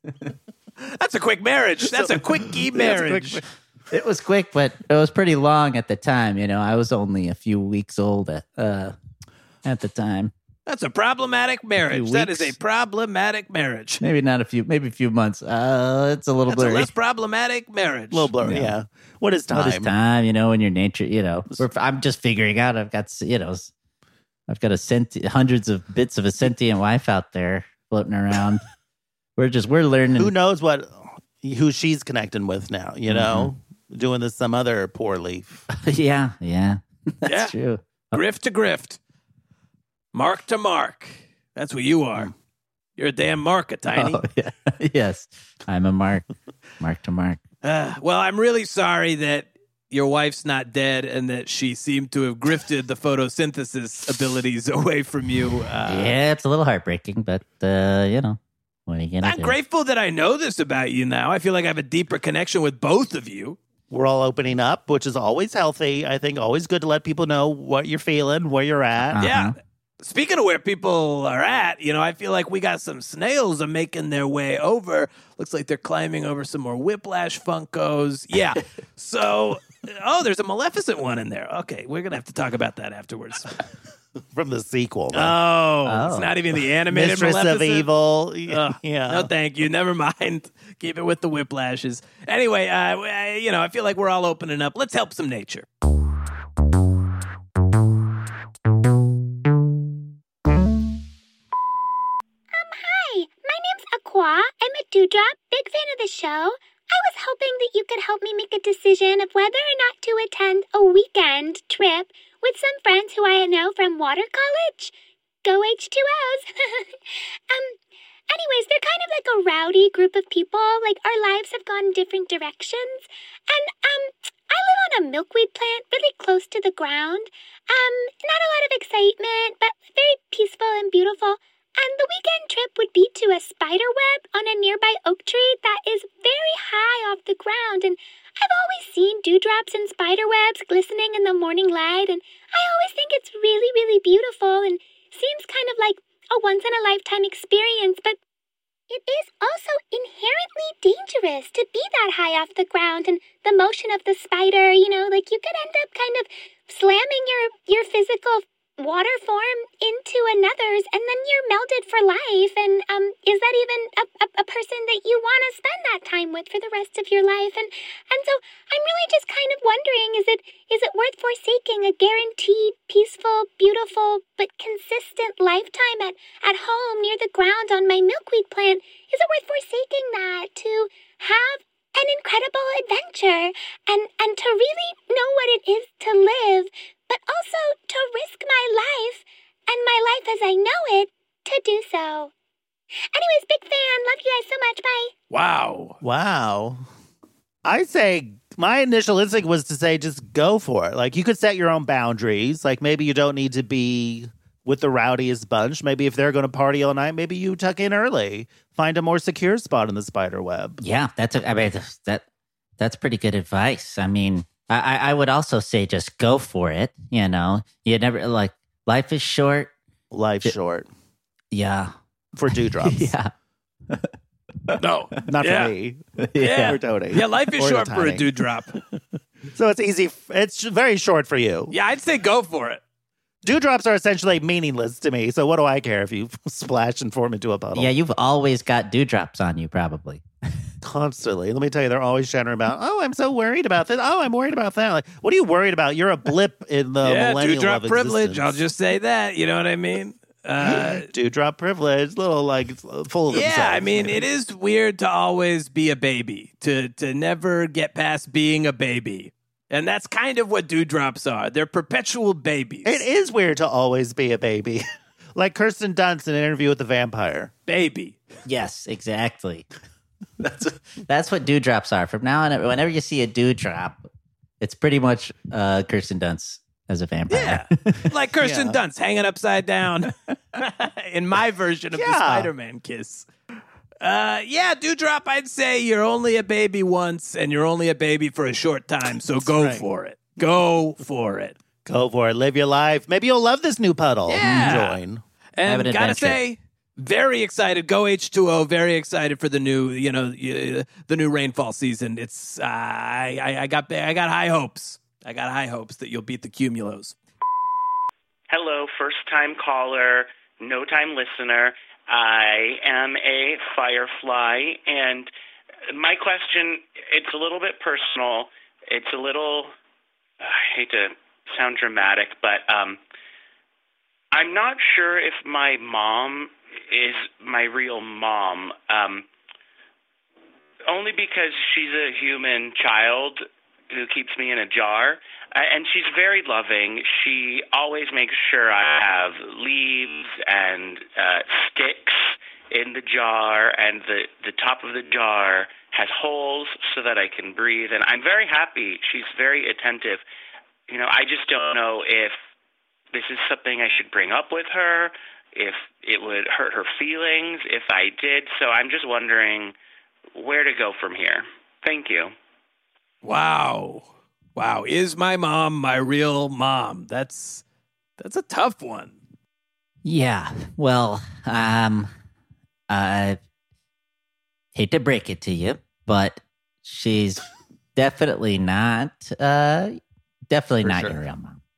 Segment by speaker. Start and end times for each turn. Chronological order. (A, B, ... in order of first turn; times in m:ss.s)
0:00.8-0:03.4 A
0:02.7-0:03.4 B
0:03.9-0:08.9 C
0:09.6-0:10.3 C
0:10.6-0:14.0 A
0:11.8-0:12.6 C
0:14.0-0:16.9 C
0:16.5-0:18.3 A
0:18.1-0:19.9 B
0:18.4-0:18.7 C
0:19.5-0:23.7 C
0:24.5-0:28.6 C
0:29.4-0:30.3 C
0:30.2-0:35.6 B
0:33.1-0:33.5 C
0:35.7-0:38.2 C
0:37.2-0:37.5 A
0:38.1-0:39.0 A
0:40.1-0:42.3 A
0:43.0-0:44.2 A
0:43.9-0:46.2 C
0:46.8-0:47.4 C
0:47.6-0:56.2 A
0:55.9-0:59.5 C
0:59.2-1:03.6 A
1:03.9-1:09.2 B
1:09.0-1:09.5 C
1:09.2-1:23.5 A
1:24.3-1:25.4 B
1:25.1-1:27.9 A
1:25.8-1:26.3 C
1:26.9-1:29.3 B
1:28.5-1:35.7 A
1:42.5-1:54.9 D
1:55.4-1:57.8 D
1:58.3-2:28.2 D
2:28.9-3:12.3 D
3:13.1-3:15.1 D
3:15.3-3:16.0 A
3:16.0-3:16.9 B
3:17.6-3:30.8 B
3:30.8-3:32.2 C
3:32.8-3:39.7 C
3:40.1-3:40.9 B
3:41.5-3:41.9 C
3:42.4-3:43.1 B
3:42.5-3:43.3 C
3:44.8-3:45.7 A
3:45.3-3:48.2 B
3:46.2-3:46.8 C
3:46.4-3:48.8 A
3:49.5-3:51.7 B
3:51.7-3:52.8 A
3:53.4-3:57.9 B
3:57.7-4:00.2 C
4:00.8-4:08.6 B
4:07.0-4:11.1 A
4:10.6-4:14.2 B
4:13.3-4:23.0 A
4:22.8-4:27.5 B
4:27.7-4:28.2 A
4:28.4-4:29.7 C
4:30.4-4:34.0 C
4:34.6-4:38.1 C
4:37.3-4:43.3 A
4:38.4-4:38.8 B
4:41.9-4:42.5 B
4:44.0-4:51.6 A
4:49.4-4:49.8 B
4:51.8-4:55.2 B
4:54.3-4:55.0 A
4:54.4-4:54.8 C
4:55.6-5:07.1 A
4:55.6-4:56.4 C
5:08.5-5:15.3 E
5:15.9-5:19.7 E
5:20.4-5:23.0 E
5:24.3-5:29.3 E
5:30.9-5:50.2 E
5:50.9-5:52.4 E
5:53.1-5:59.7 E
6:00.3-6:02.3 E
6:03.2-6:07.6 A
6:08.2-6:09.2 A
6:10.0-6:12.1 C
6:12.9-6:13.4 C
6:14.7-6:17.4 C
6:18.0-6:21.6 C
6:20.8-6:21.2 B